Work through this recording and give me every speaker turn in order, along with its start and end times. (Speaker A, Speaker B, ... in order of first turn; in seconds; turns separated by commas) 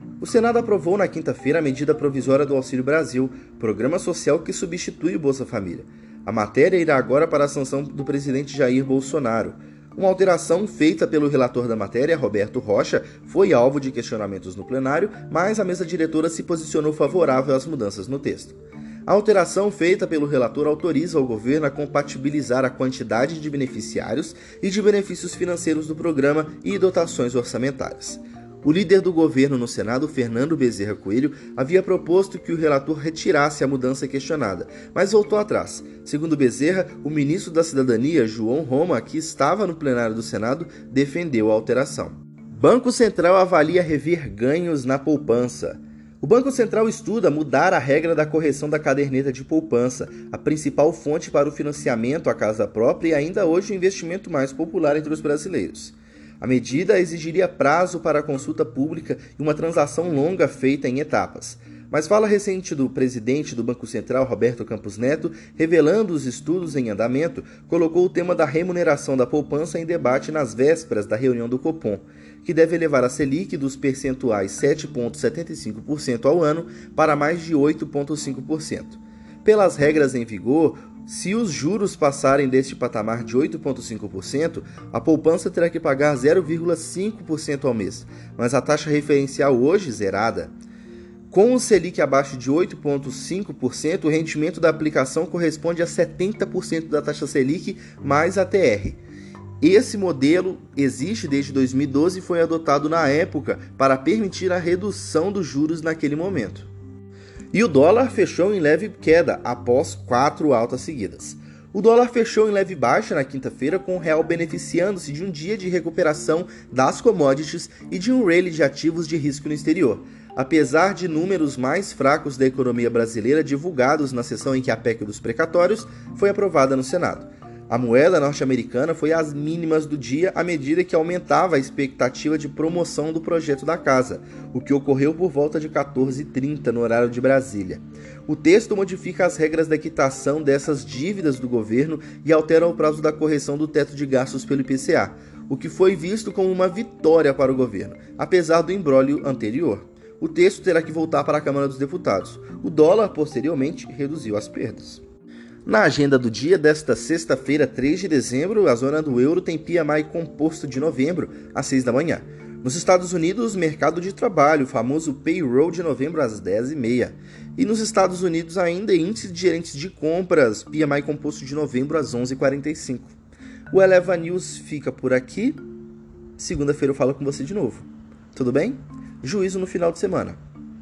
Speaker A: 0.2-90.5, Speaker A: 91.3-99.0, Speaker A: 99.6-106.7, Speaker A: 107.5-155.0, Speaker A: 155.6-173.1, Speaker A: 173.7-175.6, Speaker A: 176.4-180.4